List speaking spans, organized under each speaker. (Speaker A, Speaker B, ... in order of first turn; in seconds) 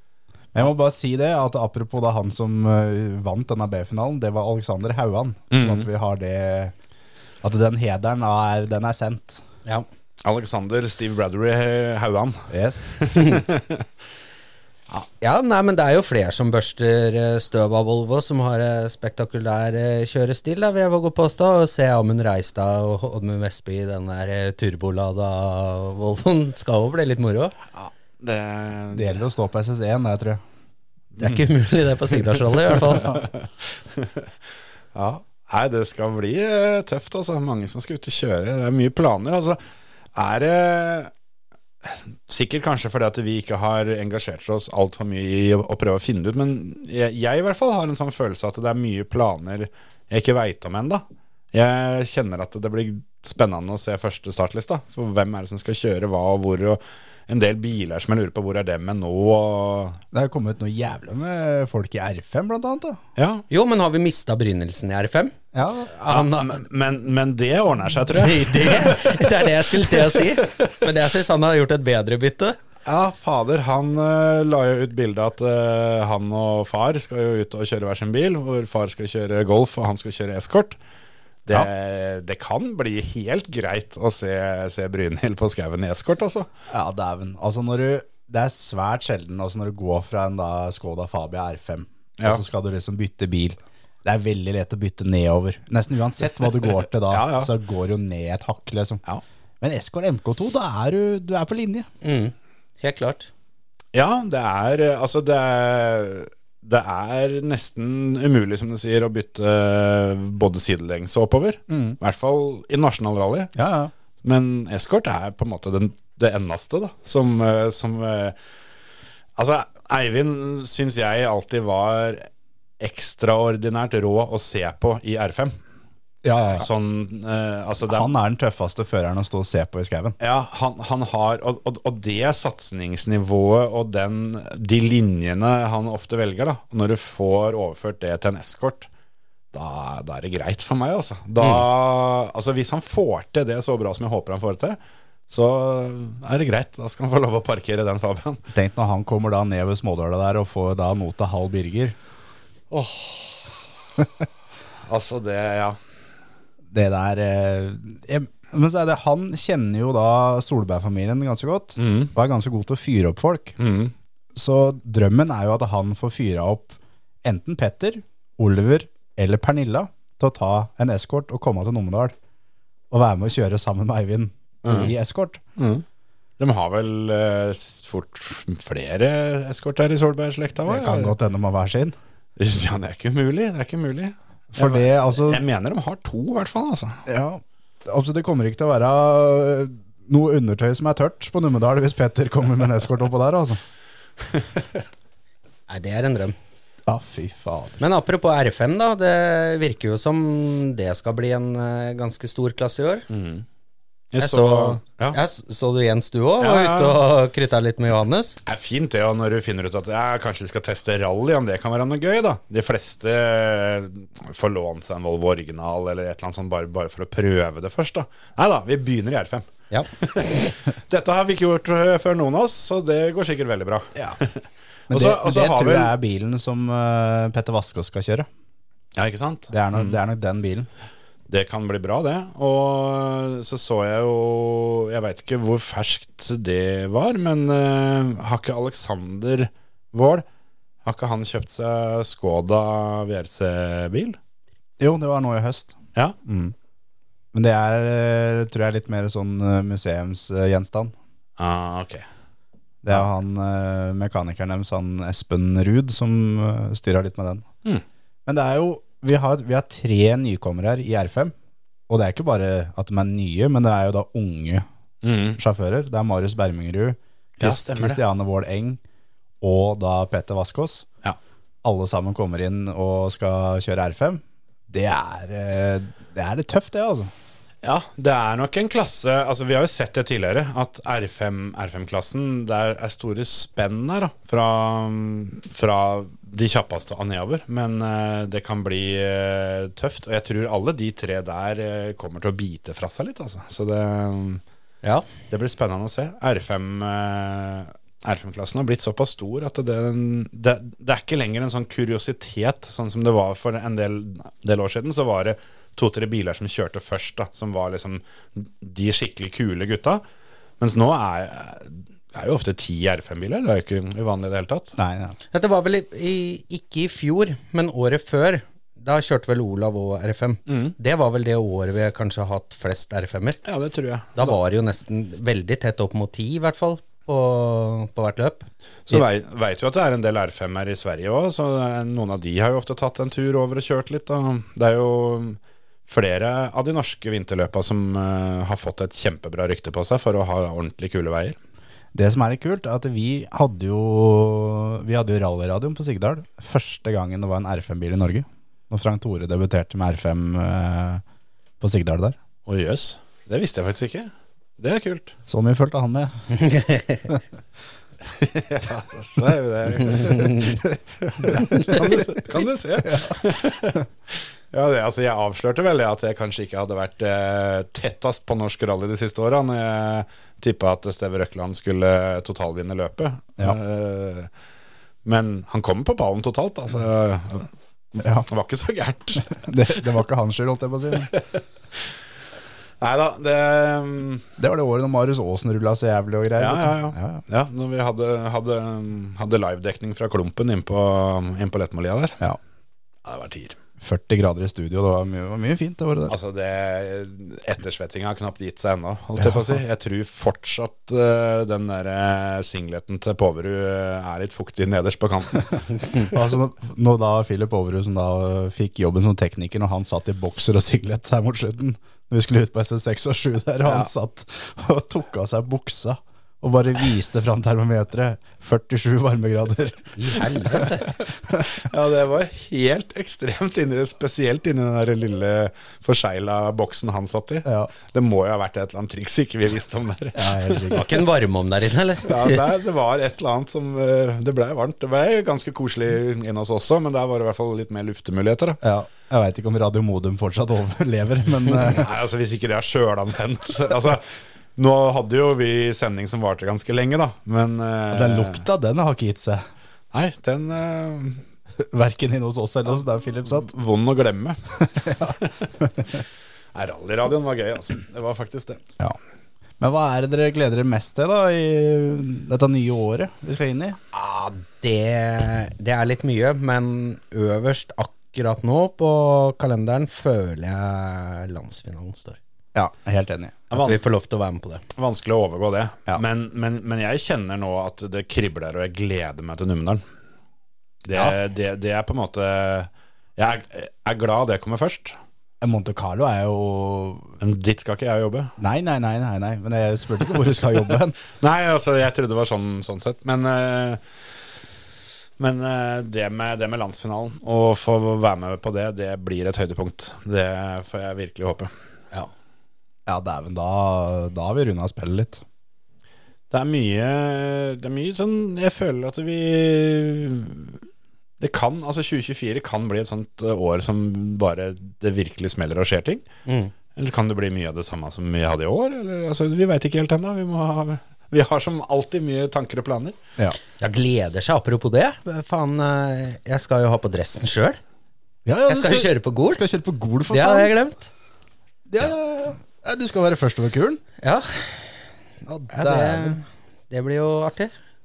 Speaker A: 0.5-6.7, 7.4-9.4, 12.5-13.0, 28.9-30.4, 60.1-63.0, 65.5-65.9, 86.7-99.0, 99.6-101.9, 111.7-112.0, 113.5-113.9, 126.2-126.7, 127.8-130.2, 148.5-151.9, 156.7-163.6, 164.3-172.1, 172.9-175.4, 180.7-181.9, 184.5-185.4, 187.1-193.6, 196.8-197.8, 224.9-228.3, 229.5-230.7, 244.8-246.5, 247.3-250.9, 252.8-257.5, 258.2-261.3, 261.9-264.6, 265.4-268.8, 269.4-270.9, 271.6-277.1, 314.8-315.2, 341.9-351.0, 351.6-352.2, 355.3-356.4, 361.2-362.0, 362.8-363.2, 378.0-378.3, 379.3-381.1, 384.4-387.2, 393.8-396.1, 399.2-399.6, 406.1-420.7, 421.2-421.5, 427.4-427.7, 430.1-430.9, 438.6-441.9, 447.9-449.4, 451.6-453.5, 454.6-456.0, 459.6-463.8, 472.5-473.5, 485.4-487.1, 488.4-491.0, 502.9-505.2, 528.2-530.5, 531.7-533.8, 535.2-536.2
Speaker B: 5.5-5.9, 10.2-13.8, 27.7-29.2, 33.9-34.3, 34.9-39.6, 40.1-41.1, 41.8-60.0, 63.2-63.4, 66.1-69.3, 72.8-80.8, 81.5-86.5, 97.1-97.5, 103.9-113.5, 114.2-118.3, 119.3-122.3, 122.8-125.5, 126.5-128.1, 130.2-138.9, 139.5-144.8, 145.3-148.4, 152.7-153.4, 154.8-155.8, 161.8-162.1, 163.6-163.9, 174.6-174.9, 175.6-175.8, 176.4-181.1, 182.4-187.0, 203.1-203.4, 204.1-205.2, 206.4-207.0, 208.4-225.9, 228.9-230.0, 231.3-240.2, 240.8-244.2, 251.4-252.0, 265.0-265.4, 267.4-268.0, 277.6-294.4, 295.3-310.0, 310.6-314.7, 320.5-320.7, 323.4-324.4, 328.9-341.4, 352.5-355.1, 358.0-374.3, 375.0-377.5, 378.1-379.9, 381.0-381.9, 382.8-384.2, 386.4-392.2, 393.0-393.6, 396.1-406.1, 421.5-430.9, 432.0-438.6, 441.6-448.4, 449.9-451.2, 453.2-455.5, 456.5-458.6, 473.5-473.8, 474.7-479.8, 480.9-485.0, 487.2-488.3, 491.1-493.8, 495.2-501.5, 506.3-510.6, 511.2-516.0, 516.8-523.0
Speaker C: 13.1-13.4, 14.9-27.5, 31.2-33.2, 63.5-65.3, 65.9-66.6, 68.1-72.6, 102.0-103.3, 195.7-196.3, 197.8-203.1, 204.2-208.4, 315.3-323.4, 324.1-328.5, 356.4-357.1, 360.0-360.6, 361.5-361.9, 419.9-420.9, 430.7-432.4, 463.9-472.2, 473.5-474.6, 516.2-516.5, 523.6-527.6, 528.5-529.4, 530.1-530.9, 534.0-534.8, 535.5-537.5